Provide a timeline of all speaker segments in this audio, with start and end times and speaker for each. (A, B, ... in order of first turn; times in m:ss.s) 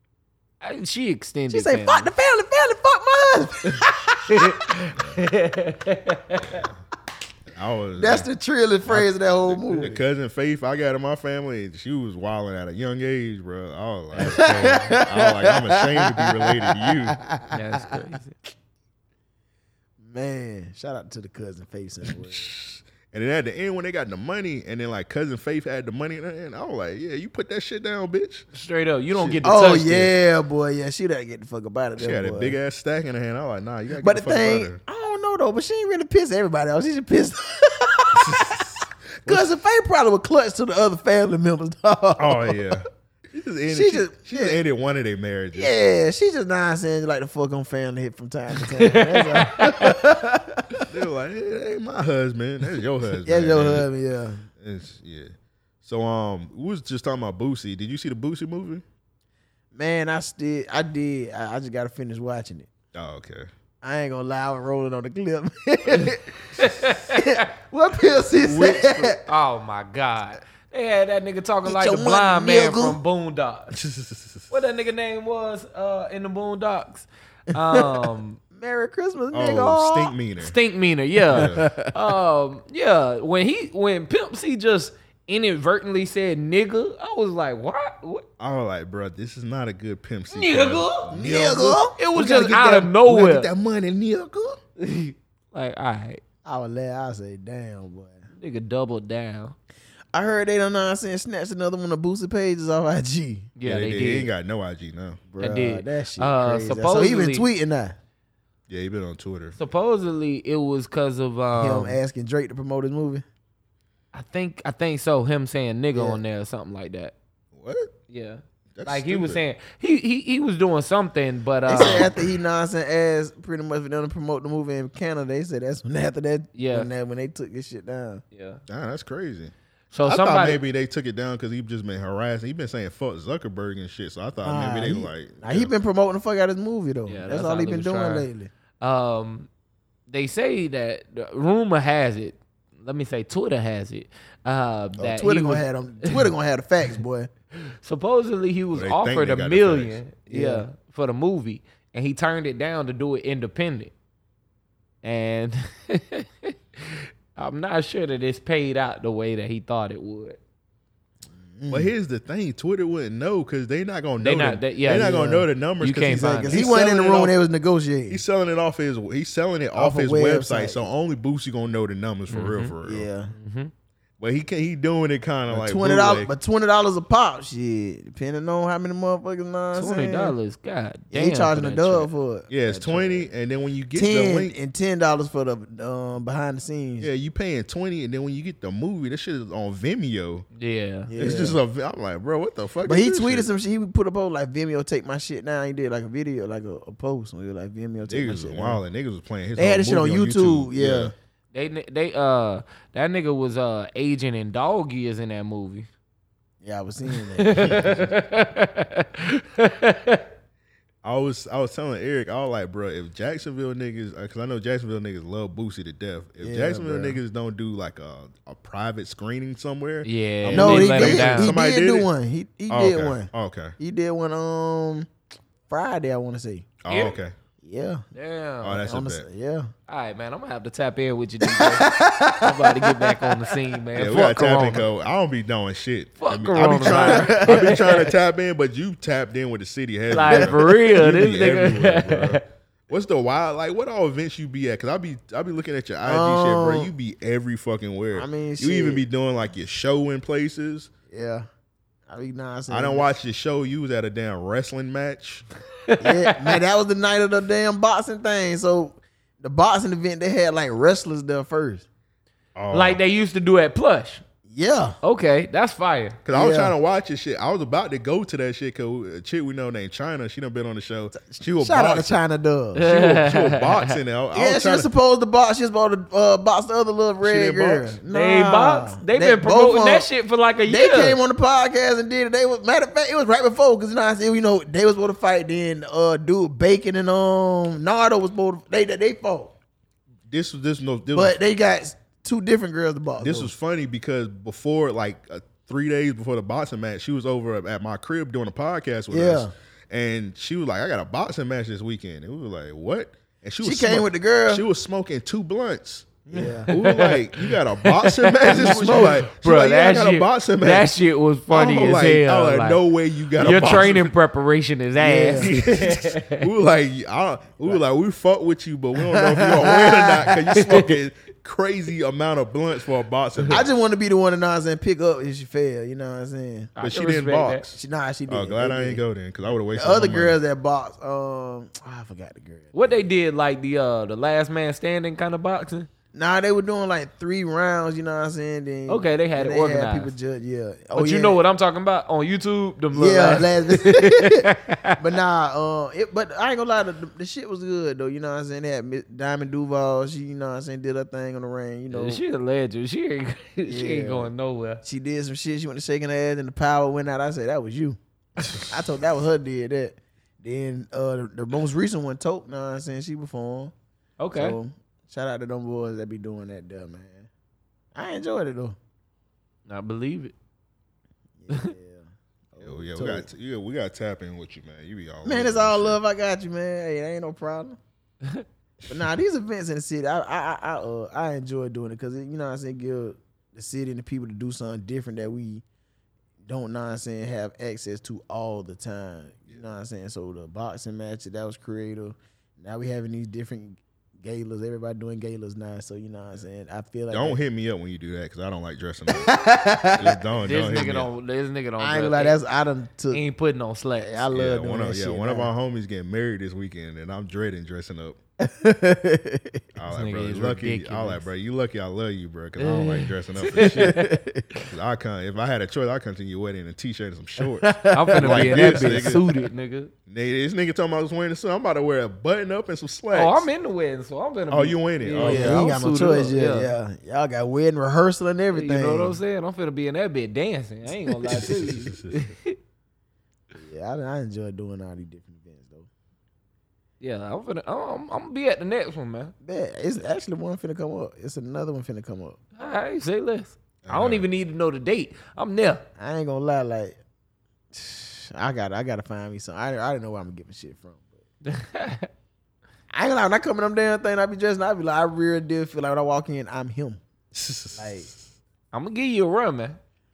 0:00.6-0:02.1 A
0:01.5-0:04.5 B
0:03.8-0:06.6 A
0:06.4-0:06.8 C
0:07.5-0:08.3 C
0:08.0-0:10.0 B
0:08.8-0:17.2 C
0:14.2-0:15.0 A
0:14.2-0:18.0 B
0:17.5-0:18.3 A
0:20.1-0:22.5 B
0:22.0-0:28.5 C
0:28.5-0:30.1 A
0:29.1-0:29.4 C
0:29.4-0:32.6 B
0:32.0-0:34.8 C
0:34.0-0:38.6 B
0:38.2-0:38.6 C
0:39.2-0:42.6 B
0:42.2-0:45.7 C
0:43.7-0:44.6 B
0:45.6-0:50.8 B
0:48.8-0:49.9 A
0:50.8-0:53.9 C
0:53.2-0:54.4 B
0:54.6-0:55.3 C
0:55.8-0:58.8 C
0:59.7-1:02.7 B
1:02.9-1:03.5 C
1:03.8-1:06.4 B
1:05.9-1:07.4 A
1:07.1-1:09.2 B
1:08.4-1:09.0 C
1:09.1-1:13.8 A
1:11.6-1:13.0 B
1:13.7-1:14.5 C
1:14.5-1:18.4 A
1:17.7-1:20.1 B
1:19.3-1:20.5 C
1:20.4-1:28.2 A
1:21.3-1:21.7 C
1:28.4-1:34.6 C
1:30.3-1:31.1 A
1:31.1-1:32.0 B
1:32.0-1:33.5 A
1:34.8-1:36.2 A
1:36.4-1:38.2 B
1:38.3-1:39.6 A
1:40.1-1:43.5 B
1:43.6-1:44.3 A
1:43.6-1:45.2 C
1:45.3-1:48.0 B
1:45.4-1:47.5 A
1:48.7-1:49.6 C
1:49.6-1:52.0 A
1:51.6-1:53.2 B
1:54.1-1:57.1 A
1:57.6-1:57.9 C
1:58.1-2:02.1 A
1:58.7-1:59.4 C
2:01.7-2:08.2 B
2:06.5-2:06.9 A
2:08.3-2:08.6 A
2:08.7-2:09.5 C
2:09.9-2:10.6 A
2:10.0-2:15.7 C
2:14.4-2:18.5 B
2:17.1-2:18.3 A
2:18.8-2:19.5 A
2:20.1-2:26.3 A
2:25.0-2:27.3 B
2:27.7-2:33.9 A
2:28.7-2:30.0 C
2:30.3-2:30.6 B
2:35.0-2:40.4 A
2:41.6-2:41.9 B
2:41.7-2:47.3 C
2:44.2-2:45.2 A
2:44.9-2:45.4 B
2:45.8-2:46.7 A
2:46.3-2:48.2 B
2:48.1-2:53.1 C
2:49.8-2:50.8 B
2:52.3-2:52.7 A
2:52.8-2:53.3 B
2:53.3-2:53.7 A
2:54.2-2:56.3 C
2:55.5-3:00.4 B
2:59.7-3:02.1 A
3:01.1-3:02.5 B
3:02.5-3:04.5 C
3:02.6-3:03.2 A
3:04.0-3:07.1 B
3:07.0-3:10.5 C
3:10.6-3:11.1 A
3:11.1-3:11.6 B
3:11.2-3:13.5 C
3:12.8-3:18.8 B
3:18.0-3:21.1 C
3:19.6-3:21.1 B
3:21.5-3:25.9 A
3:26.6-3:27.9 B
3:27.1-3:30.2 A
3:27.6-3:28.0 C
3:31.0-3:42.1 C
3:36.4-3:37.2 B
3:40.0-3:41.5 A
3:40.5-3:45.1 B
3:42.7-3:43.7 C
3:45.7-3:46.7 B
3:46.8-3:47.3 C
3:46.9-3:47.2 A
3:47.6-3:48.0 B
3:48.1-3:48.8 A
3:48.6-3:49.2 C
3:48.8-3:49.7 B
3:49.9-3:54.9 A
3:51.4-3:53.4 B
3:54.0-4:10.9 C
3:56.2-3:58.1 A
3:56.8-3:57.8 B
4:00.1-4:02.4 A
4:06.0-4:06.9 B
4:08.2-4:09.0 B
4:11.1-4:11.4 B
4:12.1-4:13.1 B
4:12.7-4:15.4 C
4:15.9-4:16.6 A
4:16.0-4:21.8 B
4:22.5-4:23.0 C
4:22.7-4:24.2 A
4:24.5-4:25.0 B
4:25.0-4:26.2 A
4:26.2-4:32.2 C
4:26.3-4:26.7 B
4:31.2-4:32.8 B
4:32.7-4:33.9 A
4:32.8-4:34.9 C
4:34.3-4:40.1 B
4:37.2-4:38.0 C
4:38.1-4:41.2 A
4:40.7-4:49.5 B
4:50.3-4:51.4 C
4:51.1-4:53.5 B
4:53.2-5:11.0 C
4:59.1-4:59.5 B
5:03.6-5:04.6 B
5:06.3-5:12.8 A
5:06.3-5:06.7 B
5:08.5-5:09.2 B
5:11.5-5:14.1 C
5:13.4-5:16.4 A
5:15.0-5:15.5 B
5:15.4-5:23.7 C
5:19.1-5:20.4 B
5:20.5-5:20.9 A
5:23.5-5:26.7 B
5:26.8-5:27.6 A
5:26.8-5:30.4 C
5:27.7-5:29.0 B
5:29.7-5:32.7 B
5:32.7-5:35.9 A
5:36.1-5:41.4 B
5:38.9-5:40.1 A
5:40.9-5:45.0 A
5:42.9-5:52.2 B
5:51.9-5:54.8 A
5:53.7-5:54.3 B
5:54.8-5:58.0 B
5:58.6-6:03.7 B
6:04.2-6:04.6 A
6:04.3-6:07.3 B
6:07.9-6:08.8 B
6:09.7-6:10.3 A
6:11.4-6:13.2 B
6:12.6-6:16.0 C
6:15.2-6:17.8 B
6:18.9-6:25.6 B
6:26.5-6:37.4 B
6:37.1-6:41.1 C
6:39.1-6:40.2 B
6:40.3-6:42.4 A
6:41.8-6:43.2 B
6:43.1-6:44.3 A
6:44.2-6:45.5 B
6:44.3-6:48.2 C
6:48.4-6:49.6 B
6:49.8-6:54.0 C
6:49.9-6:51.3 A
6:52.6-6:54.1 A
6:53.6-6:54.4 B
6:54.6-6:59.3 C
6:57.4-6:59.3 B
6:57.9-6:59.9 A
7:00.1-7:03.5 C
7:03.1-7:06.7 A
7:04.5-7:05.6 C
7:05.2-7:09.2 B
7:08.5-7:12.6 A
7:11.1-7:11.6 B
7:11.3-7:12.3 C
7:13.6-7:15.9 B
7:17.0-7:19.3 A
7:19.4-7:22.4 B
7:22.6-7:25.8 A
7:23.8-7:24.3 C
7:26.0-7:27.0 B
7:27.7-7:31.2 B
7:31.4-7:32.1 A
7:32.9-7:37.0 B
7:37.3-7:38.1 C
7:37.7-7:38.1 B
7:38.7-7:39.8 A